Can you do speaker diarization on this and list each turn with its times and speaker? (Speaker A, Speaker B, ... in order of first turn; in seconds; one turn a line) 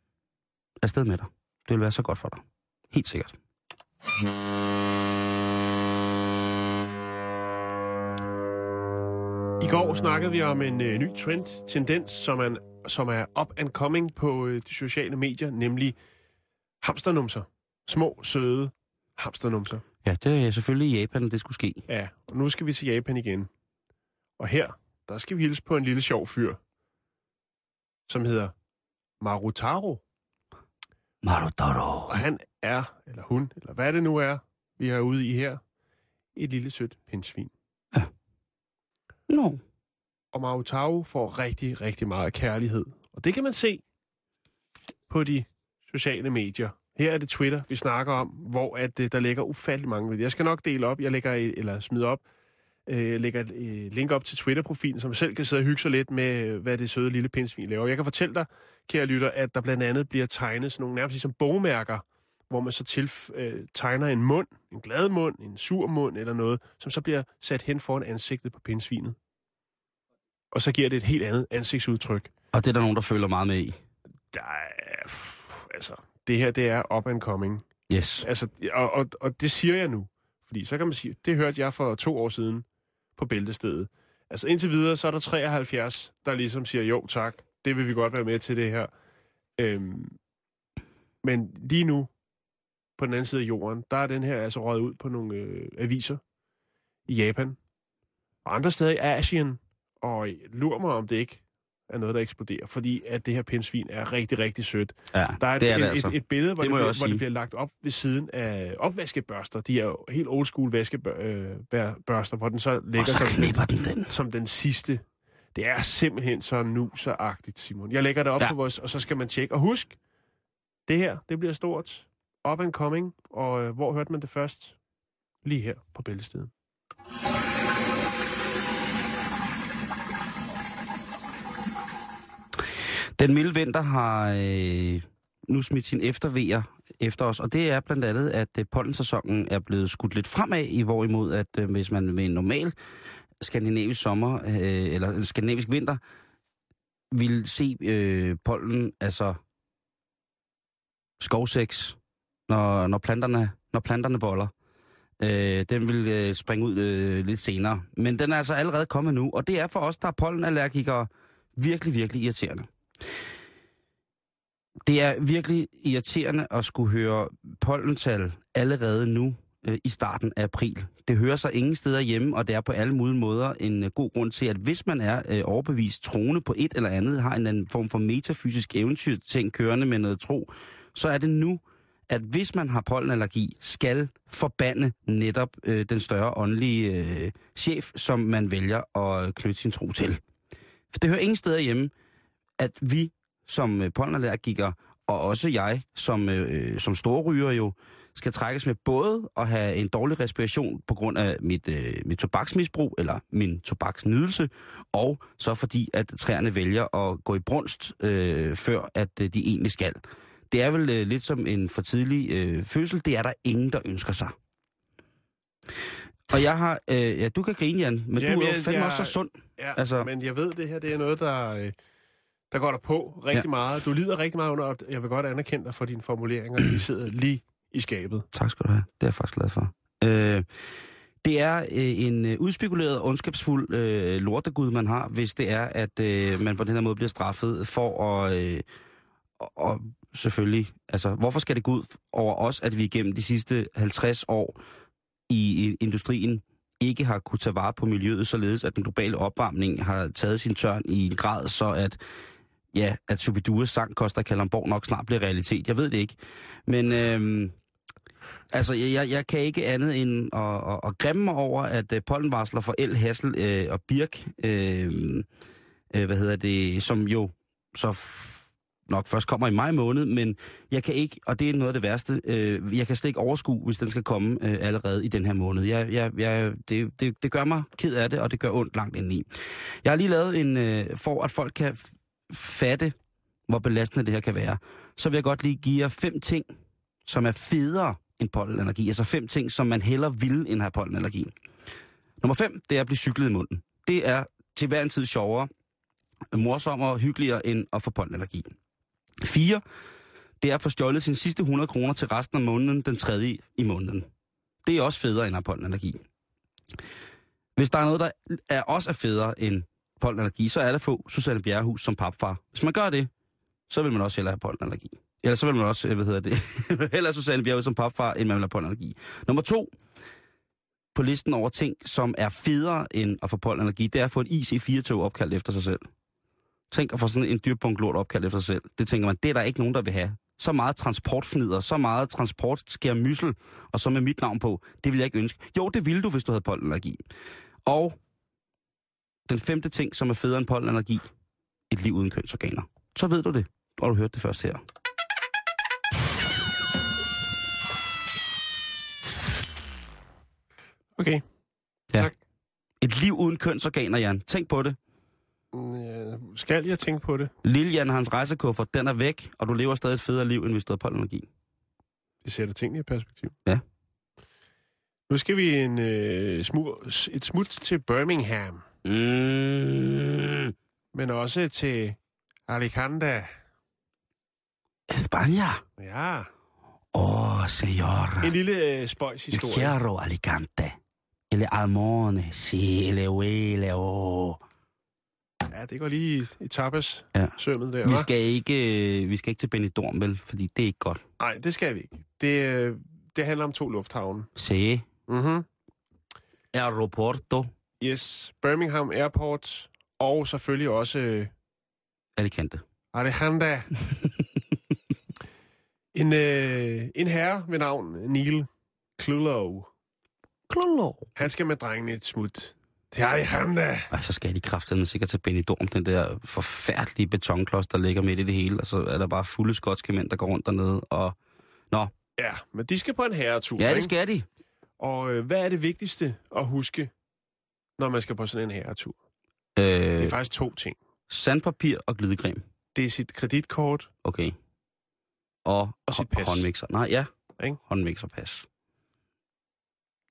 Speaker A: 0.8-3.4
Speaker B: 9.6-16.0
Speaker B: 16.8-19.8
Speaker A: 20.0-21.8
Speaker B: 21.9-23.5
Speaker B: 24.4-26.6
Speaker B: 28.1-28.5
Speaker B: 29.2-30.0
Speaker A: 31.2-32.2
Speaker B: 32.1-35.6
Speaker B: 36.4-37.5
Speaker A: 39.3-39.6
Speaker B: 40.3-43.8
Speaker B: 45.1-52.2
Speaker B: 52.9-69.2
Speaker B: 70.5-72.3
Speaker A: 72.5-73.8
Speaker B: 74.3-77.6
Speaker A: 77.9-78.3
Speaker B: 78.2-82.6
Speaker B: 83.2-88.9
Speaker B: 89.6-90.2
Speaker B: 91.2-92.1
Speaker B: 93.0-96.2
Speaker B: 97.1-97.6
Speaker B: 98.5-115.0
Speaker A: 105.1-107.2
Speaker A: 113.0-114.1
Speaker B: 115.5-120.0
Speaker B: 120.9-124.8
Speaker B: 125.4-126.5
Speaker A: 133.2-142.7
Speaker A: 143.4-146.0
Speaker A: 147.1-149.4
Speaker A: 151.2-152.0
Speaker A: 152.5-154.5
Speaker A: 155.2-162.7
Speaker A: 164.8-190.2
Speaker A: 190.9-191.9
Speaker A: 192.6-214.3
Speaker A: 216.3-220.1
Speaker B: 218.2-221.8
Speaker B: 222.5-228.3
Speaker A: 228.3-230.5
Speaker A: 231.2-238.7
Speaker A: 239.4-244.6
Speaker A: 245.3-252.0
Speaker A: 252.7-257.5
Speaker A: 258.5-265.2
Speaker A: 265.9-279.3
Speaker A: 279.8-282.9
Speaker A: 283.5-286.5
Speaker A: 287.1-291.3
Speaker A: 292.2-295.5
Speaker A: 296.3-298.5
Speaker A: 299.2-299.6
Speaker A: 300.4-304.1
Speaker A: 304.6-306.0
Speaker A: 307.6-313.1
Speaker A: 313.7-319.7
Speaker A: 320.9-325.9
Speaker A: 326.7-337.0
Speaker A: 337.6-338.0
Speaker A: 339.3-341.1
Speaker A: 341.7-344.6
Speaker B: 351.0-351.2
Speaker A: 352.8-354.8
Speaker B: 355.5-357.3
Speaker A: 357.4-361.3
Speaker B: 362.2-363.3
Speaker B: 365.1-368.6
Speaker A: 368.8-370.5
Speaker B: 370.9-373.3
Speaker A: 374.9-375.6
Speaker B: 375.8-376.3
Speaker A: 376.9-378.3
Speaker B: 378.2-379.7
Speaker A: 379.3-380.8
Speaker A: 381.3-384.4
Speaker B: 385.5-388.1
Speaker A: 387.1-391.0
Speaker B: 391.2-394.3
Speaker A: 394.4-394.9
Speaker B: 395.1-395.5
Speaker A: 396.5-397.5
Speaker B: 397.8-401.3
Speaker A: 402.2-402.6
Speaker B: 402.9-403.7
Speaker B: 405.9-409.7
Speaker A: 410.5-411.1
Speaker B: 411.2-413.9
Speaker A: 413.9-421.2
Speaker B: 422.2-423.9
Speaker A: 423.6-424.2
Speaker B: 424.8-426.9
Speaker B: 427.8-429.0
Speaker A: 429.6-430.2
Speaker B: 430.0-430.8
Speaker A: 431.1-432.4
Speaker B: 432.8-433.9
Speaker A: 434.0-434.4
Speaker A: 435.4-437.1
Speaker B: 435.9-436.5
Speaker A: 437.7-438.5